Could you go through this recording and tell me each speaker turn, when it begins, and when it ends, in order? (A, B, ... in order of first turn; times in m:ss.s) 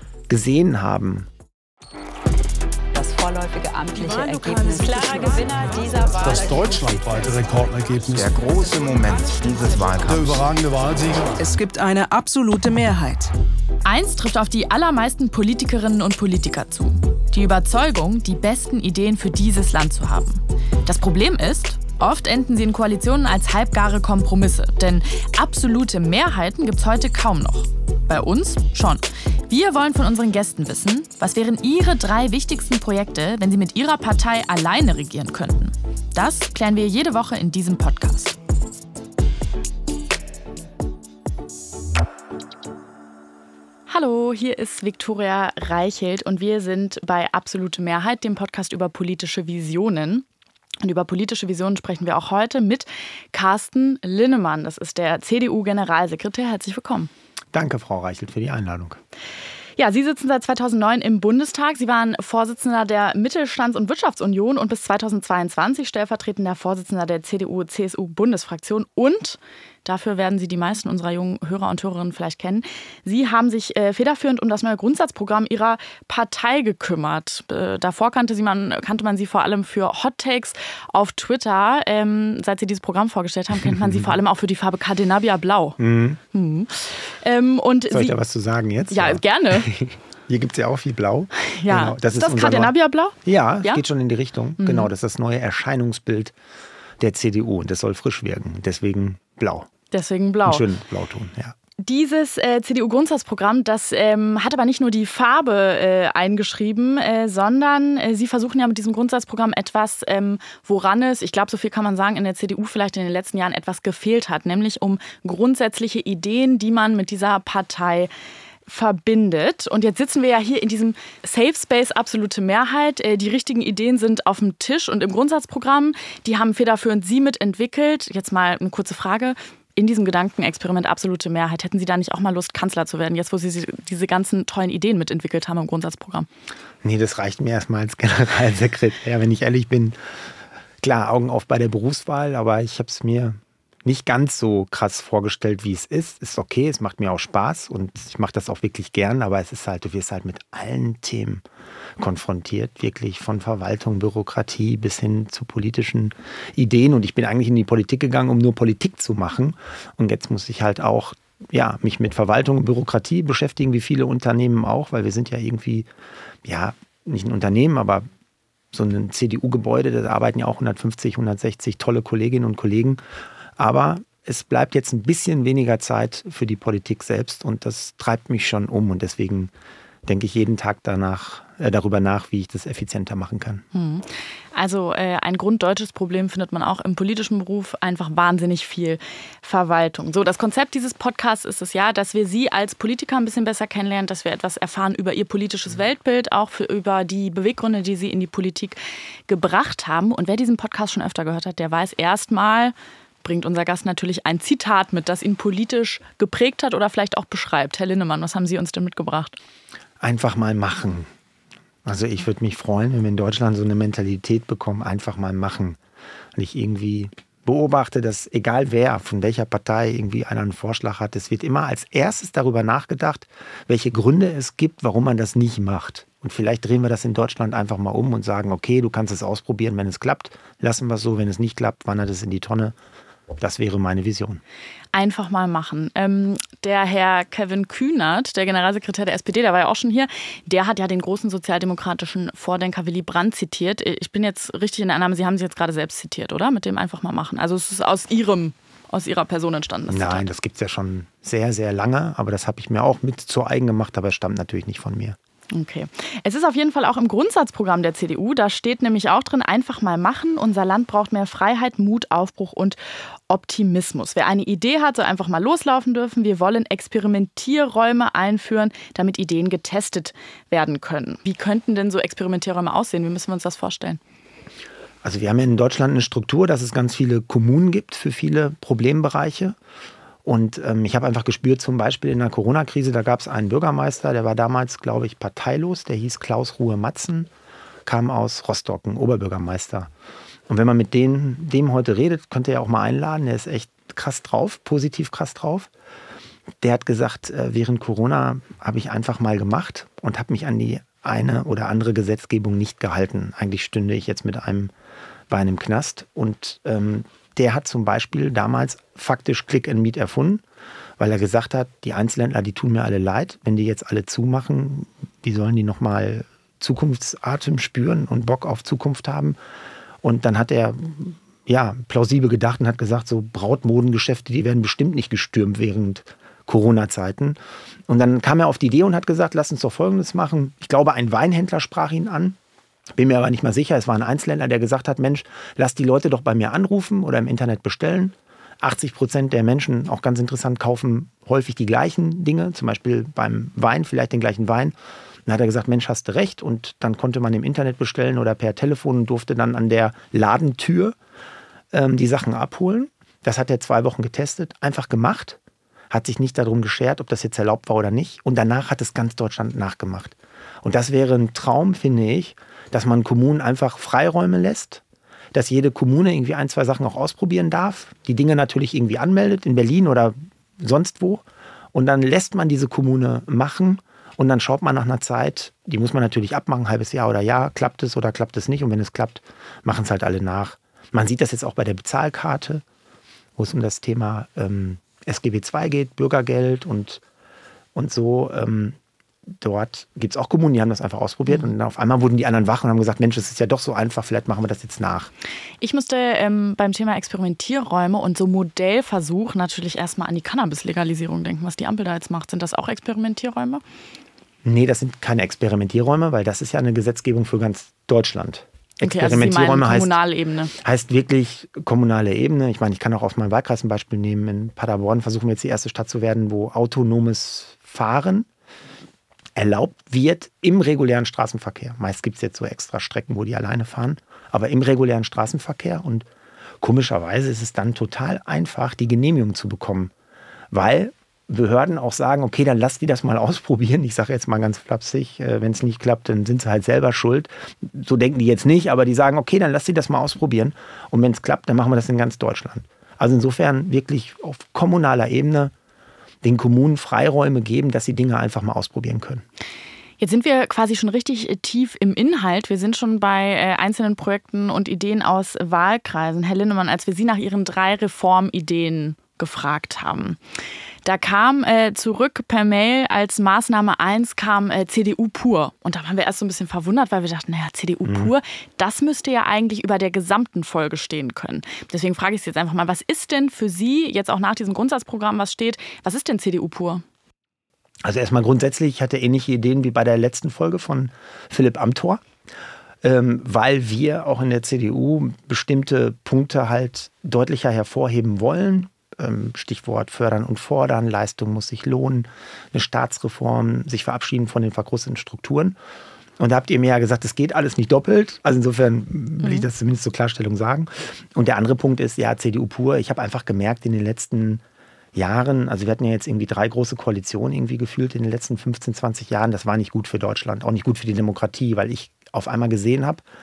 0:00.3-0:01.3 A
0:02.9-0:07.4 B
0:06.2-0:08.4 C
0:08.0-0:10.5 D
0:10.0-0:11.4 C
0:11.4-0:13.3 E
0:13.8-0:38.4 F
0:43.9-0:50.2 F
0:50.8-0:57.1 F
0:57.5-0:59.0 A
0:59.8-1:25.8 F
1:25.8-1:26.2 A
1:26.3-1:28.2 F
1:27.9-1:32.7 A
1:28.9-1:29.7 F
1:31.5-1:33.8 F
1:33.2-1:36.3 A
1:34.6-1:34.9 F
1:37.0-1:39.7 A
1:39.9-1:40.6 F
1:40.4-1:41.5 A
1:41.8-1:58.1 F
1:58.7-2:16.3 F
2:16.8-2:20.0 A
2:20.8-2:31.4 A
2:32.0-2:45.9 A
2:46.4-2:48.0 A
2:48.7-2:53.0 A
2:53.6-2:59.5 A
3:00.0-3:03.6 A
3:03.7-3:29.4 F
3:30.0-3:31.1 A
3:31.8-3:35.8 A
3:36.3-3:52.7 A
3:53.4-3:54.4 A
3:54.9-4:10.2 F
4:09.9-4:15.2 A
4:15.5-4:22.8 F
4:23.3-4:34.0 F
4:35.0-4:39.6 A
4:40.2-4:47.3 A
4:47.8-4:49.9 A
4:50.5-4:55.7 A
4:56.6-5:04.7 A
5:05.3-5:10.4 A
5:11.0-5:19.4 A
5:20.0-5:27.4 A
5:27.9-5:32.4 A
5:33.0-5:44.7 A
5:45.2-5:50.9 A
5:51.7-5:55.4 A
5:55.9-6:04.8 A
6:05.3-6:11.2 A
6:11.7-6:22.6 A
6:23.4-6:27.0 A
6:27.7-6:28.8 A
6:29.4-6:35.1 A
6:35.6-6:43.6 F
6:44.4-6:50.0 A
6:48.8-6:50.5 F
6:50.6-6:58.3 A
6:59.4-7:06.0 A
7:06.6-7:09.9 A
7:10.5-7:25.5 A
7:26.2-7:29.2 A
7:30.0-7:40.2 F
7:40.8-7:56.8 F
7:47.8-7:48.1 A
7:57.8-8:02.0 A
8:02.8-8:15.6 A
8:16.2-8:24.4 A
8:24.9-8:33.0 A